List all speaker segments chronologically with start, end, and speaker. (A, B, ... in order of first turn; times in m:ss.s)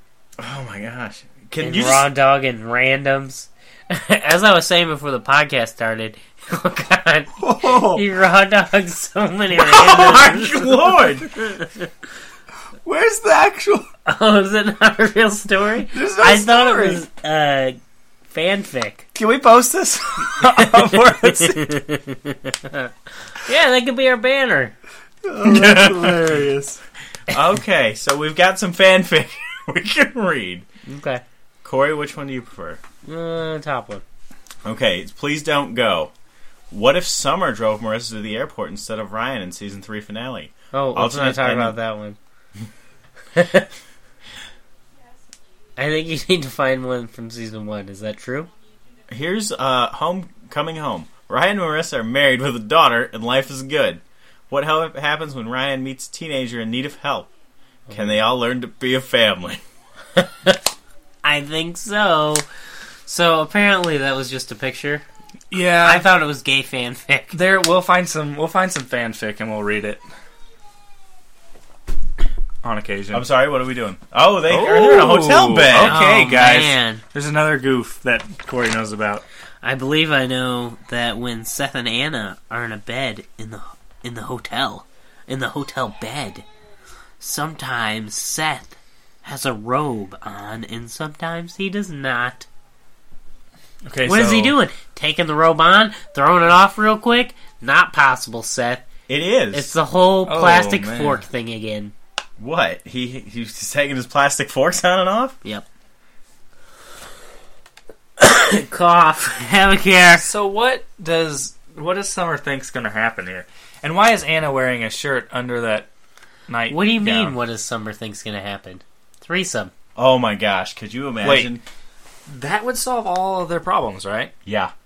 0:00.4-0:02.1 A
0:01.6-0:11.8 B
0:07.4-0:08.0 C
0:09.5-0:11.3 A
0:12.8-0:13.9 C
0:14.0-0:17.8 B
0:15.9-0:17.0 C
0:18.3-0:19.0 B
0:19.1-0:21.7 C
0:20.4-0:24.7 B
0:25.2-0:26.8 C
0:25.4-0:26.4 A
0:27.3-0:30.6 A
0:30.8-0:31.2 B
0:31.6-0:32.8 A
0:33.0-0:34.0 B
0:34.6-0:36.1 A
0:36.7-0:41.8 A
0:40.7-0:42.2 B
0:43.3-0:43.7 B
0:45.8-0:48.5 B
0:49.1-0:57.3 A
0:57.9-0:58.2 B
0:57.9-0:59.6 A
1:00.2-1:00.6 B
1:01.2-1:02.4 B
1:03.1-1:05.0 B
1:05.5-1:06.1 C
1:05.8-1:07.4 B
1:07.3-1:10.0 C
1:12.6-1:13.3 C
1:13.1-1:16.0 A
1:14.5-1:19.2 C
1:15.8-1:17.0 B
1:19.6-1:26.4 B
1:27.2-1:32.5 B
1:33.8-1:34.5 C
1:34.0-1:38.8 B
1:39.1-1:39.7 A
1:39.5-1:41.9 B
1:40.2-1:41.2 C
1:42.4-1:45.4 A
1:48.2-1:50.2 B
1:50.2-1:55.9 C
1:56.5-1:57.4 C
1:56.7-1:59.7 B
2:00.0-2:01.6 A
2:01.2-2:01.5 C
2:02.3-2:04.3 C
2:04.4-2:04.7 A